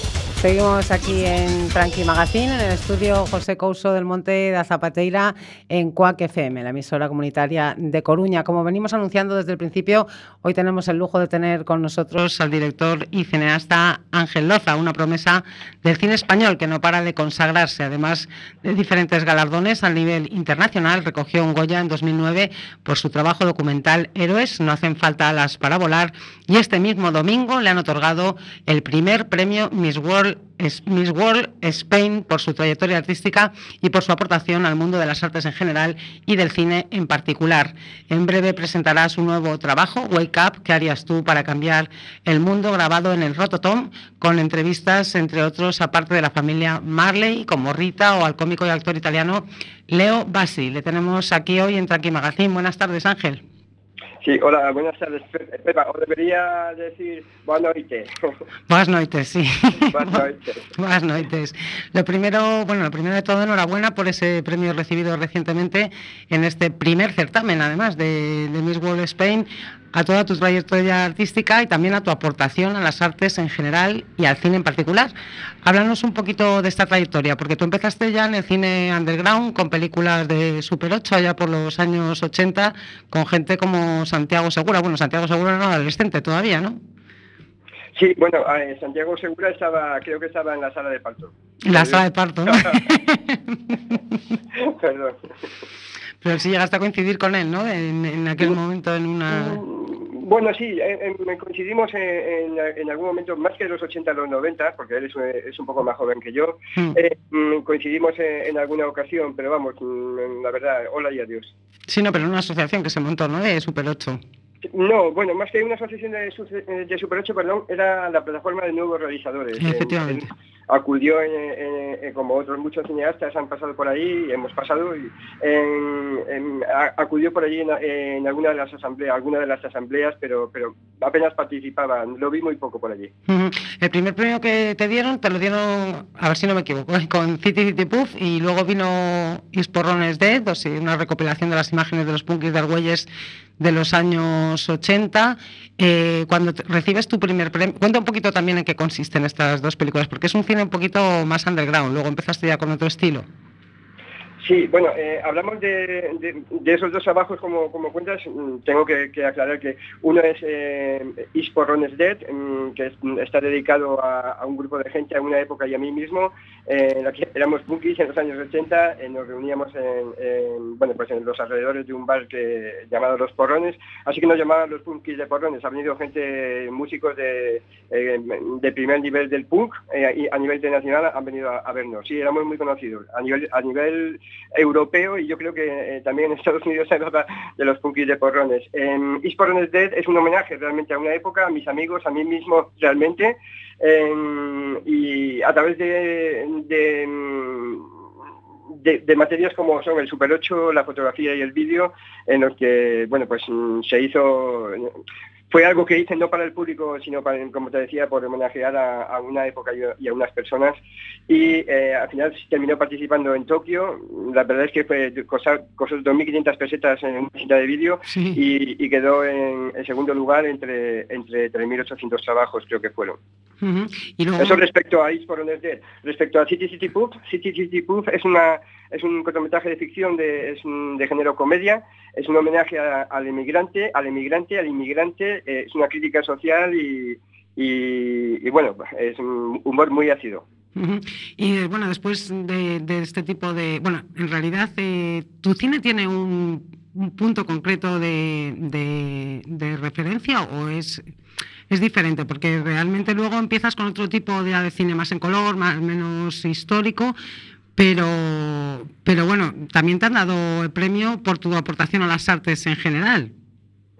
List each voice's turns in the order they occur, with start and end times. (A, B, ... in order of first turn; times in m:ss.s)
0:00.4-0:53.4 A
0:54.2-0:58.1 B
0:58.7-1:00.2 A
0:59.8-1:00.6 B
1:00.8-1:15.1 A
1:15.6-1:26.8 A
1:28.0-1:32.8 B
1:31.6-1:33.9 A
1:34.6-1:35.2 B
1:36.2-1:39.6 A
1:39.3-1:51.5 B
1:51.9-1:54.2 A
1:54.7-2:13.1 B
1:59.6-2:00.3 A
2:13.3-2:23.1 A
2:23.6-2:33.3 A
2:34.4-3:17.9 B
3:18.8-3:25.0 B
3:25.5-3:43.2 B
3:38.1-3:38.4 A
3:43.6-3:44.6 A
3:44.4-4:00.4 B
4:00.8-4:11.1 A
4:11.7-4:17.1 A
4:17.8-4:23.3 A